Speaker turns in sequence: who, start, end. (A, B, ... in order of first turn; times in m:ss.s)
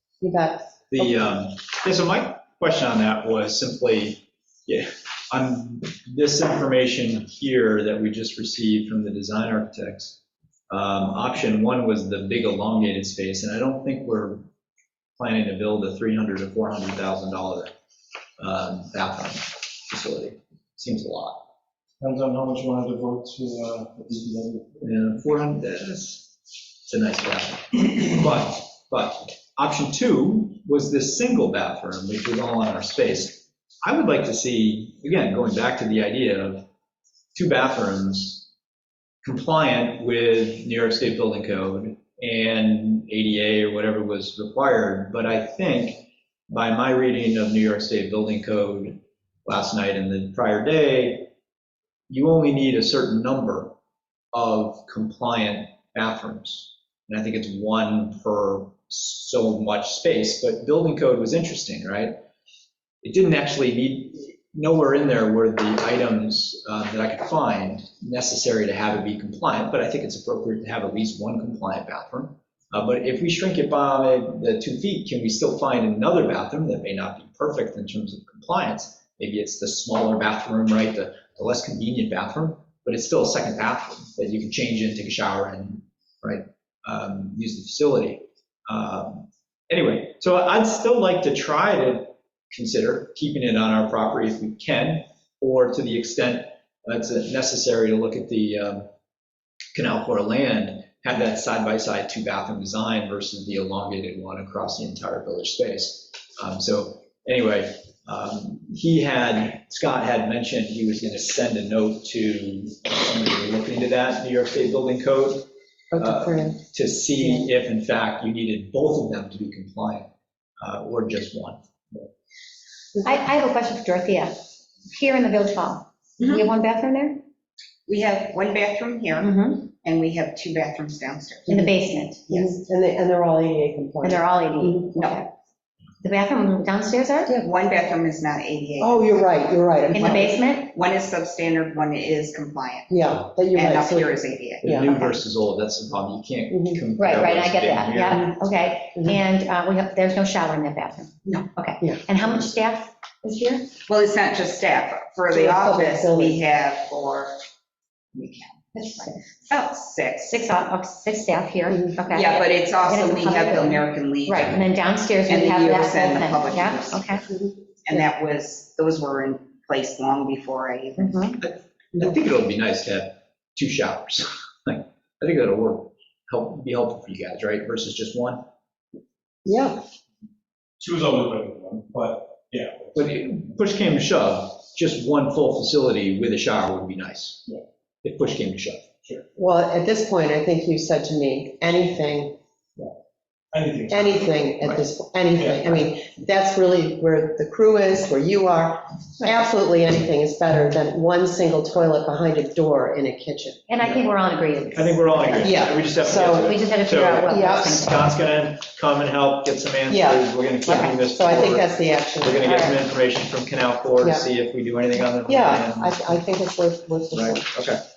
0:00.2-0:01.4 A
0:00.9-0:10.2 B
0:10.7-0:14.4 B
0:15.2-0:17.7 B
0:18.4-0:21.4 B
0:22.0-0:24.9 C
0:24.8-0:36.6 B
0:37.4-0:38.5 B
0:39.2-0:51.3 B
0:52.1-0:53.8 B
0:54.3-1:02.1 B
1:03.0-1:38.9 B
1:39.7-2:00.1 B
1:55.9-1:56.6 A
1:57.2-1:57.5 A
2:00.6-2:02.0 B
2:03.0-2:04.4 D
2:04.9-2:07.2 D
2:06.2-2:06.5 E
2:07.9-2:12.6 E
2:09.2-2:09.6 D
2:11.5-2:11.7 A
2:11.5-2:12.2 D
2:12.3-2:15.1 A
2:14.0-2:15.3 D
2:15.0-2:15.2 E
2:16.0-2:17.3 D
2:17.4-2:22.9 E
2:18.8-2:20.3 A
2:19.9-2:20.7 D
2:22.9-2:25.0 A
2:23.5-2:25.2 E
2:24.6-2:28.3 B
2:26.5-2:26.9 A
2:27.0-2:33.7 D
2:28.9-2:29.2 A
2:33.8-2:37.4 E
2:35.3-2:36.4 A
2:38.2-2:38.8 E
2:38.8-2:39.2 D
2:39.5-2:40.4 E
2:40.3-2:47.3 D
2:41.7-2:42.0 A
2:42.1-2:44.6 E
2:45.3-2:47.2 E
2:47.8-2:51.3 E
2:51.0-2:51.4 D
2:51.4-2:58.5 B
2:59.4-2:59.8 A
3:00.8-3:03.1 C
3:03.0-3:08.9 B
3:09.4-3:12.4 A
3:13.5-3:14.3 C
3:13.9-3:23.7 A
3:15.4-3:15.8 C
3:23.7-3:25.8 D
3:24.7-3:36.2 B
3:25.4-3:26.5 A
3:26.4-3:28.1 D
3:27.2-3:27.7 A
3:29.9-3:32.7 A
3:30.7-3:31.4 D
3:34.0-3:34.3 A
3:35.2-3:37.6 A
3:37.1-3:37.8 B